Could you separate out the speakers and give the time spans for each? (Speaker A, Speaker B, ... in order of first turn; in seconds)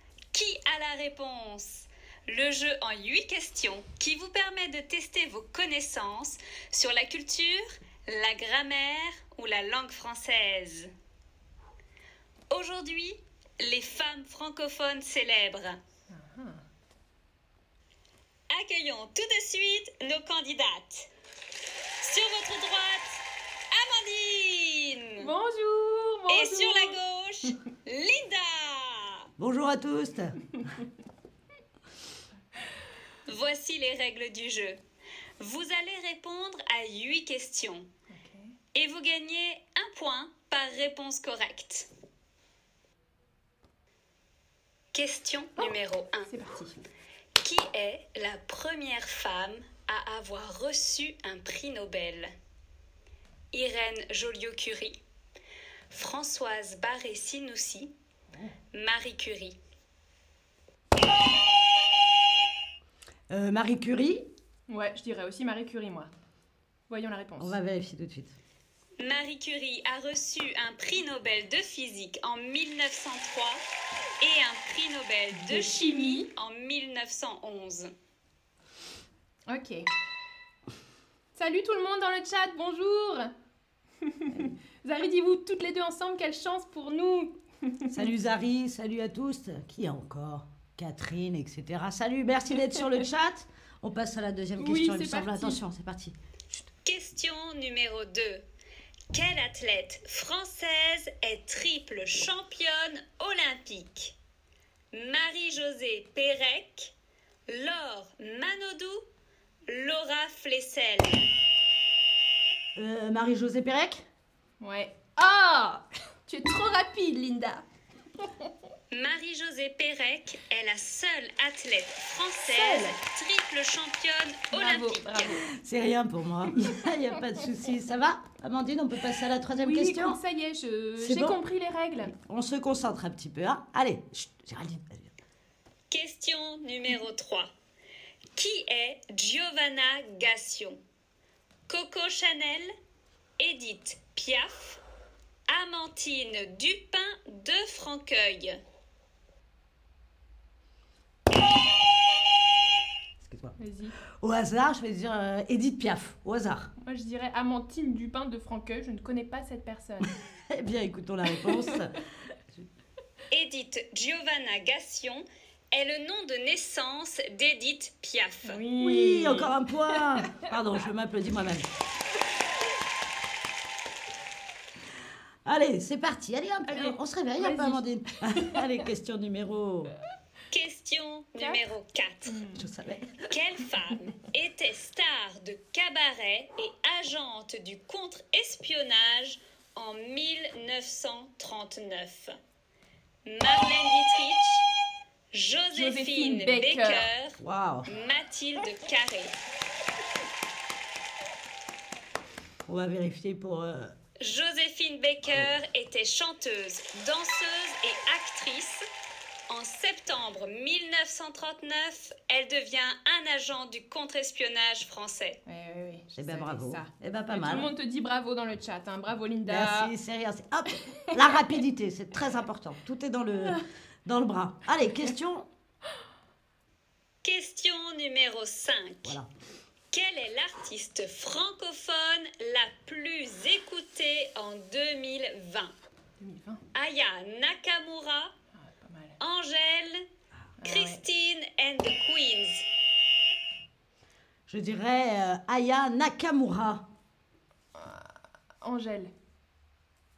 Speaker A: 0.3-10.9, 12.5-15.8, 18.5-21.1, 22.0-25.3, 26.3-29.2, 33.2-34.8, 35.4-37.9, 38.7-41.9, 44.9-46.3, 47.4-52.3, 53.5-55.0, 55.9-57.9, 58.7-59.5, 69.0-73.6, 74.2-77.9, 96.8-98.4, 99.1-104.1, 104.9-106.9, 107.5-109.0, 109.7-111.3, 118.9-125.4, 135.9-137.5, 138.3-140.8, 141.7-142.7, 143.4-144.8, 145.5-148.6, 163.3-168.6, 180.5-182.4, 183.3-192.3, 193.2-194.6, 195.3-199.3, 204.2-208.8, 209.5-215.4, 227.2-229.2, 229.9-235.7, 236.7-238.3, 239.2-240.0, 240.6-242.6
Speaker B: 16.1-16.6, 25.2-27.0, 38.1-38.5, 46.3-46.8, 64.7-66.1, 66.9-67.5, 75.5-76.3, 79.5-79.9, 81.3-83.3, 84.0-88.0, 94.6-95.6, 114.6-117.6, 122.5-123.0, 124.5-125.4, 126.5-127.2, 129.5-132.1, 153.6-153.9, 156.8-160.1, 161.4-161.7, 168.4-170.2, 176.7-177.9, 181.4-181.6, 182.2-182.7, 195.7-197.1, 215.4-219.9, 236.2-236.6, 238.6-239.2, 240.6-241.0, 247.7-249.1
Speaker C: 29.4-30.5, 63.3-64.2, 67.4-68.3, 87.9-96.1, 112.8-114.0, 125.4-130.2, 131.0-131.4, 132.0-135.1, 153.2-153.5, 154.2-156.7, 160.5-161.9, 168.7-171.7, 175.4-179.9, 182.6-183.3, 197.4-197.9, 202.7-203.9, 216.2-217.7, 219.5-225.5, 244.5-246.8